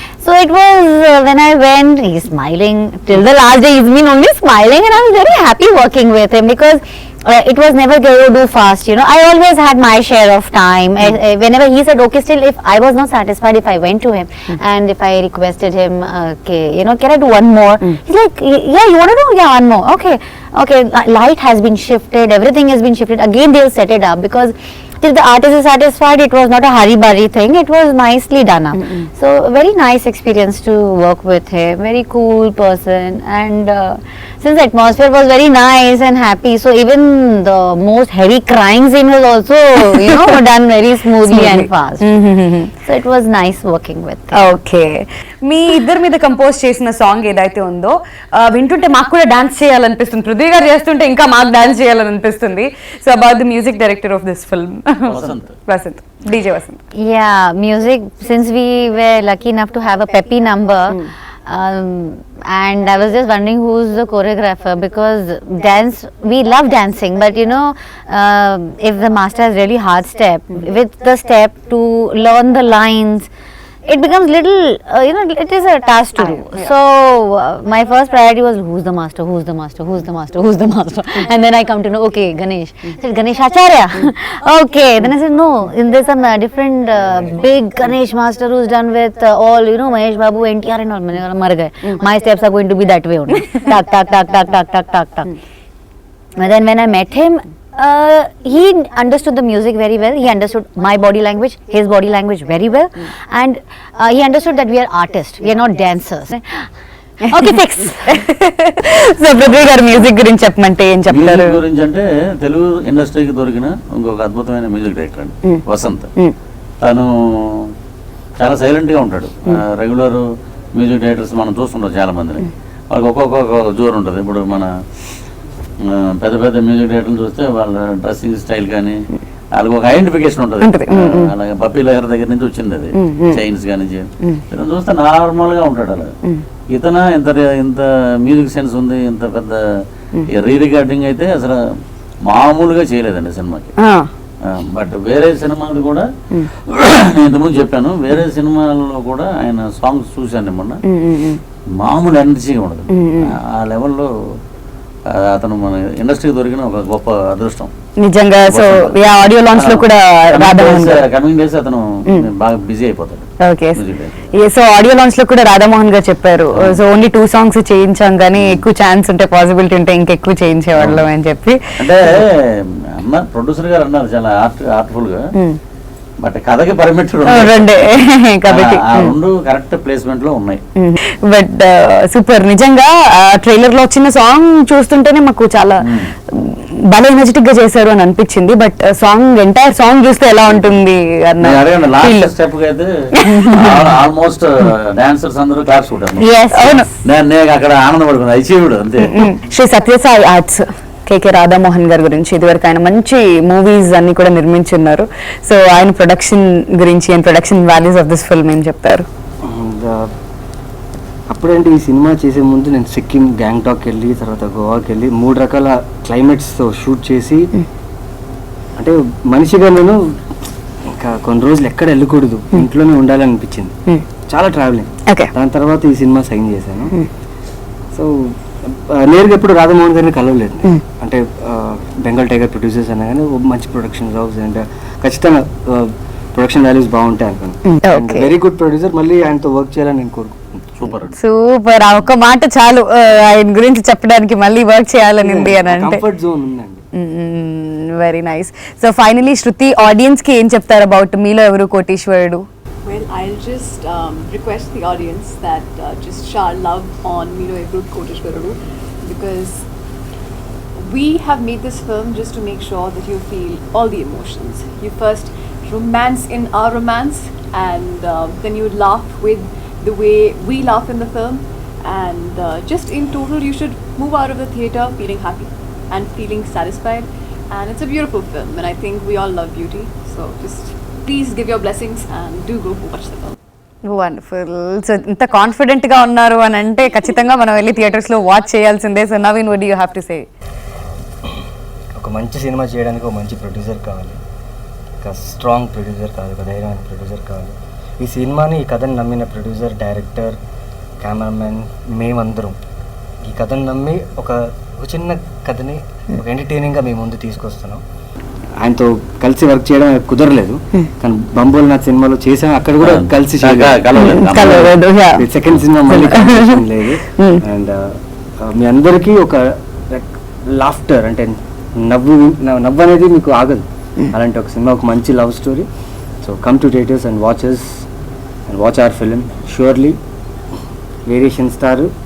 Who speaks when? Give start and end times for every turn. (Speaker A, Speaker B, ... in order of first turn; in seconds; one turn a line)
Speaker A: 0.2-42.1
Speaker B: 28.7-29.1
Speaker B: 39.9-40.3
Speaker B: 41.2-42.7
Speaker A: 42.8-44.4
Speaker B: 44.3-56.8
Speaker C: 55.1-55.5
Speaker A: 56.9-73.3
Speaker A: 73.8-95.3
Speaker B: 76.2-76.7
Speaker A: 96.3-106.7
Speaker A: 107.2-108.2
Speaker B: 107.2-111.6
Speaker C: 111.1-116.1
Speaker C: 116.8-117.7
Speaker C: 118.4-120.2
Speaker C: 120.7-124.7
Speaker C: 125.8-129.0
Speaker C: 129.5-136.1
Speaker B: 130.6-131.3
Speaker B: 132.9-133.4
Speaker C: 136.7-139.6
Speaker C: 140.3-141.6
Speaker C: 142.3-143.7
Speaker B: 143.8-144.1
Speaker C: 144.4-146.1
Speaker C: 146.7-150.8
Speaker B: 150.9-151.4
Speaker C: 151.8-154.1
Speaker B: 152.9-153.3
Speaker C: 155.1-157.7
Speaker B: 158.0-161.0
Speaker C: 158.5-159.0
Speaker C: 159.5-164.2
Speaker B: 163.4-163.8
Speaker B: 164.3-171.6
Speaker C: 168.3-168.6
Speaker C: 170.8-171.0
Speaker C: 171.8-175.3
Speaker C: 176.2-177.9
Speaker B: 177.2-179.1
Speaker C: 178.4-180.6
Speaker B: 180.8-192.3
Speaker C: 185.8-186.1
Speaker C: 190.5-190.8
Speaker C: 191.4-192.9
Speaker B: 193.2-193.5
Speaker C: 193.5-196.3
Speaker A: 196.2-196.8
Speaker B: 196.5-196.9
Speaker C: 197.0-199.3
Speaker B: 199.1-209.1
Speaker D: 209.4-210.1
Speaker D: 211.3-217.5
Speaker D: 218.8-220.0
Speaker D: 220.9-223.7
Speaker D: 224.3-226.9
Speaker D: 227.9-240.5
Speaker B: 237.7-238.3
Speaker C: 240.7-241.2
Speaker B: 241.1-246.0
Speaker D: 245.2-246.8
Speaker B: 246.9-252.4
Speaker E: 252.8-259.6
Speaker E: 260.8-283.4
Speaker B: 283.9-290.3
Speaker D: 292.0-294.2
Speaker D: 295.0-300.4
Speaker D: 301.0-302.6
Speaker D: 303.2-307.8
Speaker D: 308.6-313.9
Speaker C: 312.8-314.7
Speaker B: 314.0-315.3
Speaker D: 315.2-325.7
Speaker B: 315.9-317.4
Speaker D: 326.2-327.9
Speaker D: 328.5-330.0
Speaker D: 331.1-331.9